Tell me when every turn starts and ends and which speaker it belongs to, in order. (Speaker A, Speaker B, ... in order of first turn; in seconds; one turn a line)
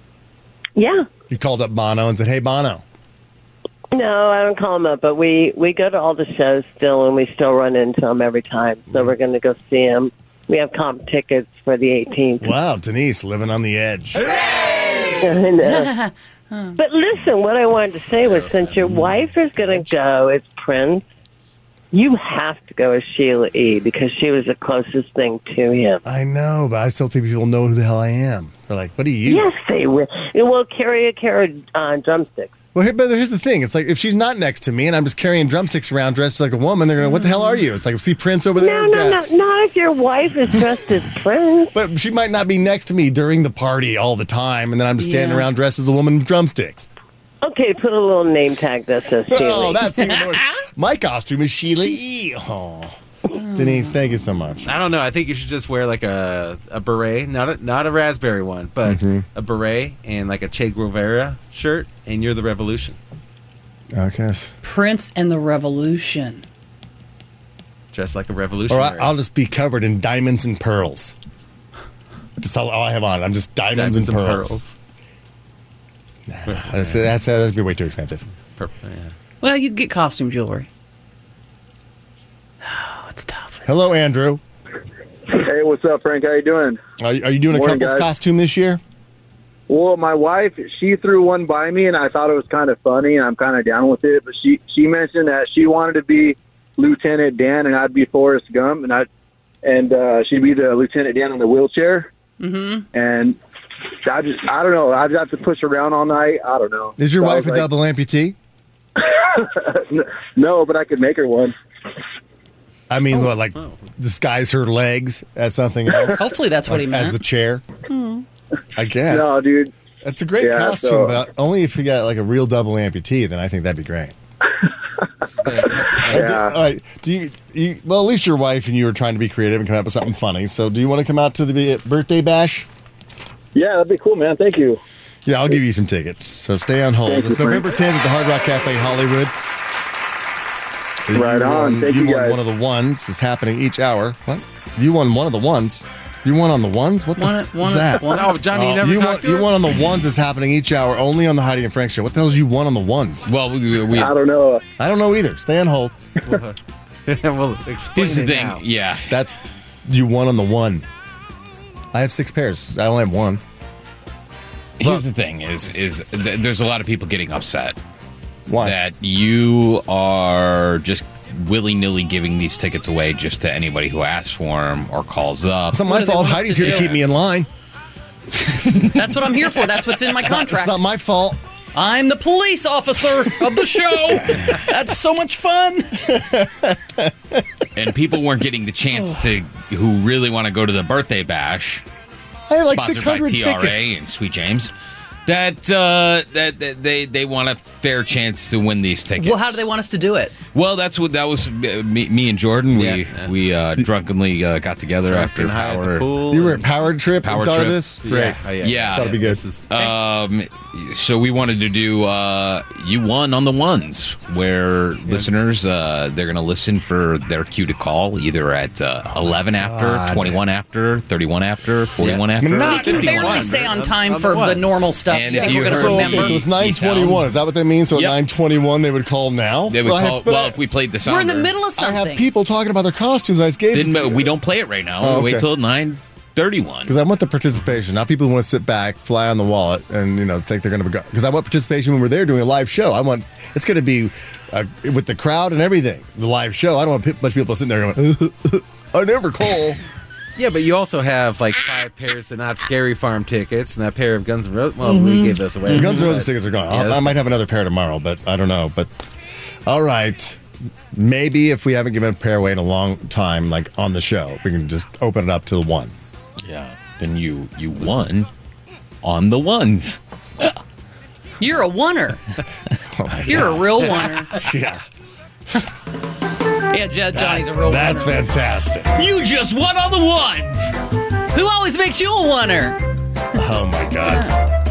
Speaker A: 0.8-1.1
Speaker B: 1.3-2.8
Speaker A: 3.9-12.5
Speaker B: 12.4-14.3
Speaker A: 15.2-15.9
Speaker C: 15.6-16.8
Speaker A: 16.8-21.0
Speaker D: 18.2-19.1
Speaker A: 21.9-26.0
Speaker B: 26.0-29.5
Speaker A: 29.2-32.5
Speaker B: 32.8-39.3
Speaker C: 37.0-37.6
Speaker A: 38.5-41.7
Speaker B: 41.7-46.9
Speaker C: 45.0-45.5
Speaker A: 47.4-50.1
Speaker B: 49.3-52.9
Speaker C: 53.3-54.0
Speaker B: 53.5-54.8
Speaker D: 54.6-63.0
Speaker B: 58.9-59.2
Speaker B: 63.9-64.5
Speaker C: 64.6-66.4
Speaker D: 67.9-69.2
Speaker B: 68.7-71.2
Speaker B: 72.4-74.6
Speaker D: 73.7-74.8
Speaker B: 76.3-78.2
Speaker D: 76.5-77.0
Speaker D: 78.5-79.1
Speaker C: 79.4-80.7
Speaker C: 82.6-83.6
Speaker B: 83.7-84.4
Speaker E: 85.3-86.8
Speaker B: 87.0-88.8
Speaker E: 87.5-88.1
Speaker E: 89.7-99.1
Speaker E: 99.6-102.1
Speaker C: 102.4-102.9
Speaker E: 102.9-103.4
Speaker E: 104.0-107.7
Speaker B: 107.0-108.4
Speaker E: 109.0-111.5
Speaker B: 112.9-117.6
Speaker C: 116.2-117.2
Speaker C: 117.9-118.2
Speaker B: 118.8-119.3
Speaker E: 119.1-119.7
Speaker B: 120.0-124.1
Speaker E: 120.4-121.2
Speaker D: 125.4-126.5
Speaker E: 126.0-126.5
Speaker B: 126.0-132.7
Speaker E: 133.5-134.8
Speaker B: 135.2-139.3
Speaker E: 137.0-137.7
Speaker B: 141.1-153.3
Speaker E: 141.1-142.4
Speaker C: 147.2-148.4
Speaker D: 148.0-149.6
Speaker F: 153.3-154.1
Speaker E: 153.9-154.6
Speaker B: 154.8-156.0
Speaker D: 156.3-158.6
Speaker F: 157.9-159.1
Speaker B: 159.1-160.9
Speaker B: 161.9-163.4
Speaker F: 164.8-167.8
Speaker B: 168.5-168.8
Speaker F: 168.6-175.8
Speaker B: 175.7-177.5
Speaker C: 175.8-176.9
Speaker F: 176.6-176.9
Speaker C: 178.8-180.8
Speaker B: 180.1-181.4
Speaker C: 181.8-186.1
Speaker B: 186.1-187.4
Speaker F: 187.8-191.8
Speaker B: 192.5-194.0
Speaker F: 192.7-194.7
Speaker F: 195.2-199.6
Speaker C: 199.2-200.3
Speaker F: 200.5-206.1
Speaker D: 202.7-203.3
Speaker D: 205.0-206.7
Speaker B: 206.3-209.4
Speaker F: 207.2-209.2
Speaker D: 208.0-209.6
Speaker F: 209.7-223.4
Speaker B: 219.1-220.4
Speaker D: 222.0-226.0
Speaker B: 222.4-223.5
Speaker C: 222.6-226.4
Speaker F: 225.1-227.3
Speaker B: 225.5-230.6
Speaker F: 227.9-228.2
Speaker F: 229.7-231.5
Speaker C: 231.1-232.3
Speaker B: 231.8-234.3
Speaker F: 233.7-236.9
Speaker B: 235.0-235.5
Speaker B: 236.9-249.8
Speaker D: 250.4-257.2
Speaker B: 255.7-258.9
Speaker B: 259.6-260.4
Speaker B: 260.9-265.9
Speaker F: 266.4-268.3
Speaker F: 269.0-270.6
Speaker C: 271.4-272.2
Speaker B: 272.9-274.8
Speaker C: 273.2-274.3
Speaker C: 276.7-278.3
Speaker B: 277.1-279.0
Speaker F: 278.9-280.8
Speaker C: 281.3-282.8
Speaker B: 283.3-284.3
Speaker C: 284.1-284.4